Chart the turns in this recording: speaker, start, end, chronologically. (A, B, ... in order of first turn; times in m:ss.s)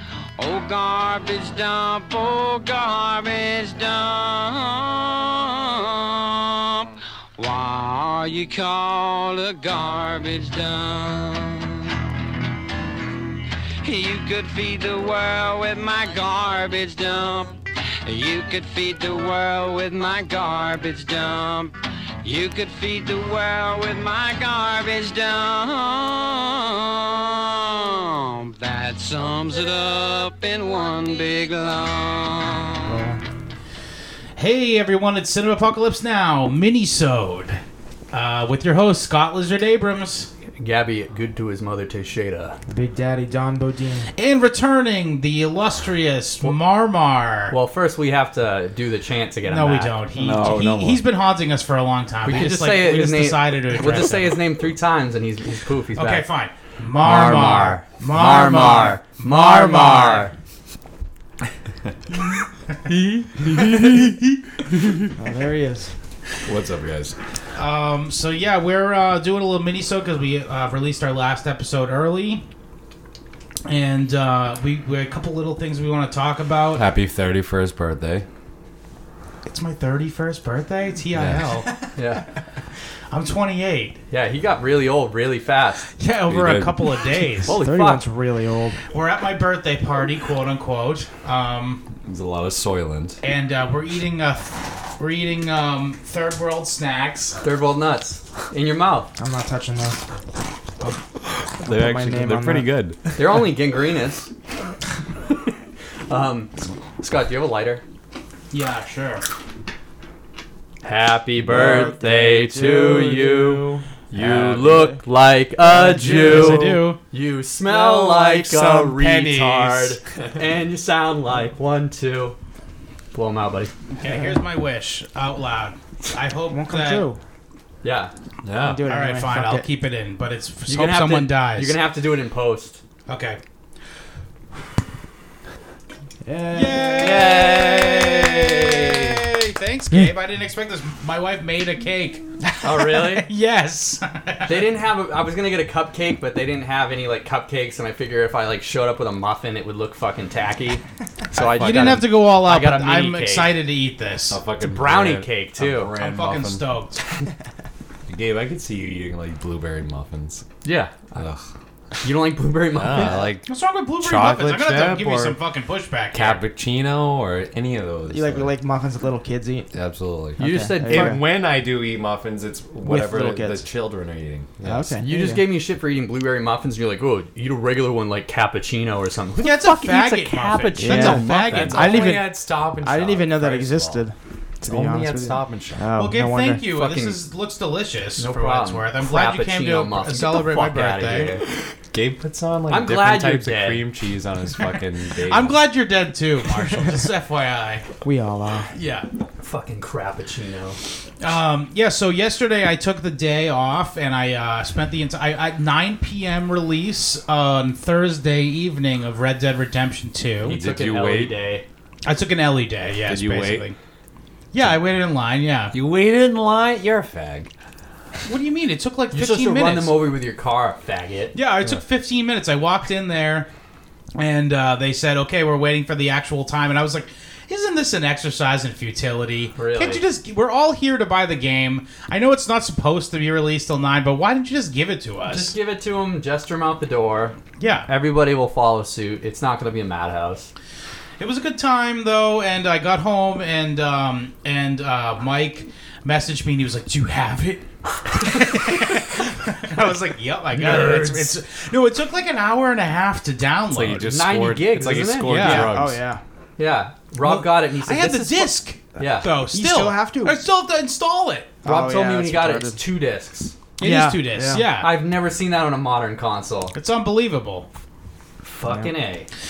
0:00.4-0:12.0 A
0:13.8-0:33.0 A
0:32.9-0:33.2 B
0:34.4-0:37.6 C
0:38.1-0:40.3 C
0:40.6-0:42.6 D
0:42.7-0:44.1 B
0:44.2-0:47.6 C
0:47.5-0:50.0 D
0:49.5-0:54.4 C
0:50.2-0:51.0 E
0:52.2-0:56.3 D
0:56.0-1:00.3 C
0:57.0-1:00.3 D
1:05.2-1:05.9 B
1:06.4-1:07.2 E
1:07.6-1:12.4 C
1:13.7-1:16.8 C
1:16.7-1:18.3 E
1:19.5-1:21.9 C
1:21.1-1:21.6 E
1:22.0-1:22.2 D
1:23.1-1:24.0 C
1:24.1-1:25.9 D
1:26.0-1:27.6 C
1:26.3-1:26.9 E
1:27.4-1:28.0 D
1:27.4-1:28.8 B
1:28.9-1:31.8 C
1:32.0-1:33.2 E
1:33.2-1:37.4 C
1:37.4-1:39.1 D
1:39.2-1:40.0 B
1:41.2-1:43.2 E
1:41.6-1:42.7 B
1:43.2-1:44.3 D
1:46.1-1:47.8 D
1:48.5-1:49.2 C
1:50.8-2:02.4 D
1:51.5-1:53.8 B
1:51.5-1:51.9 E
1:54.2-1:54.8 E
1:54.6-1:55.0 B
1:55.7-1:57.0 C
1:56.1-1:56.7 B
1:56.2-1:56.7 E
1:57.7-2:00.2 E
2:03.1-2:03.7 D
2:04.0-2:07.1 C
2:04.0-2:04.4 B
2:06.5-2:07.2 B
2:07.8-2:08.1 D
2:08.4-2:08.9 E
2:08.6-2:09.7 B
2:08.9-2:11.8 C
2:10.7-2:12.8 D
2:13.1-2:13.4 C
2:16.2-2:17.5 B
2:16.5-2:22.2 C
2:17.0-2:19.2 D
2:22.6-2:23.3 D
2:23.0-2:24.6 C
2:24.5-2:30.8 D
2:31.3-2:32.0 E
2:31.3-2:33.5 D
2:31.6-2:34.4 C
2:34.3-2:36.6 E
2:34.6-2:35.9 D
2:36.0-2:37.0 C
2:38.1-2:40.5 E
2:40.6-2:41.0 D
2:41.1-2:41.4 E
2:42.0-2:43.3 D
2:42.8-2:45.4 E
2:43.5-2:46.4 C
2:46.1-2:48.5 E
2:48.1-2:49.7 B
2:49.7-2:55.0 E
2:50.4-2:51.2 B
2:50.4-2:51.2 D
2:52.8-2:53.6 B
2:54.6-2:55.4 B
2:55.0-3:02.2 D
2:59.4-3:02.0 C
3:00.8-3:06.6 B
3:01.5-3:04.0 E
3:04.7-3:05.8 E
3:06.0-3:11.4 C
3:06.7-3:07.2 D
3:08.2-3:11.4 D
3:11.9-3:15.6 E
3:12.7-3:13.9 D
3:15.3-3:17.8 C
3:18.0-3:18.7 B
3:18.7-3:19.1 C
3:19.4-3:20.8 D
3:21.2-3:30.6 C
3:30.4-3:31.4 E
3:30.4-3:31.6 D
3:32.0-3:33.8 C
3:33.1-3:33.7 E
3:34.5-3:35.8 C
3:35.7-3:37.5 E
3:38.3-3:40.0 C
3:39.1-3:41.4 D
3:41.4-3:43.5 C
3:44.2-3:55.5 C
3:49.6-3:50.0 D
3:55.3-4:00.5 D
3:57.6-3:57.9 C
4:01.2-4:14.1 C
4:10.5-4:11.4 E
4:13.7-4:16.0 E
4:14.1-4:15.6 D
4:15.3-4:15.8 C
4:15.6-4:16.2 B
4:16.6-4:19.3 D
4:17.2-4:21.5 C
4:19.5-4:20.4 B
4:21.6-4:22.8 B
4:21.6-4:23.6 D
4:23.8-4:25.0 C
4:23.8-4:24.6 B
4:24.8-4:26.8 D
4:26.7-4:27.7 C
4:28.4-4:29.3 D
4:28.7-4:28.9 B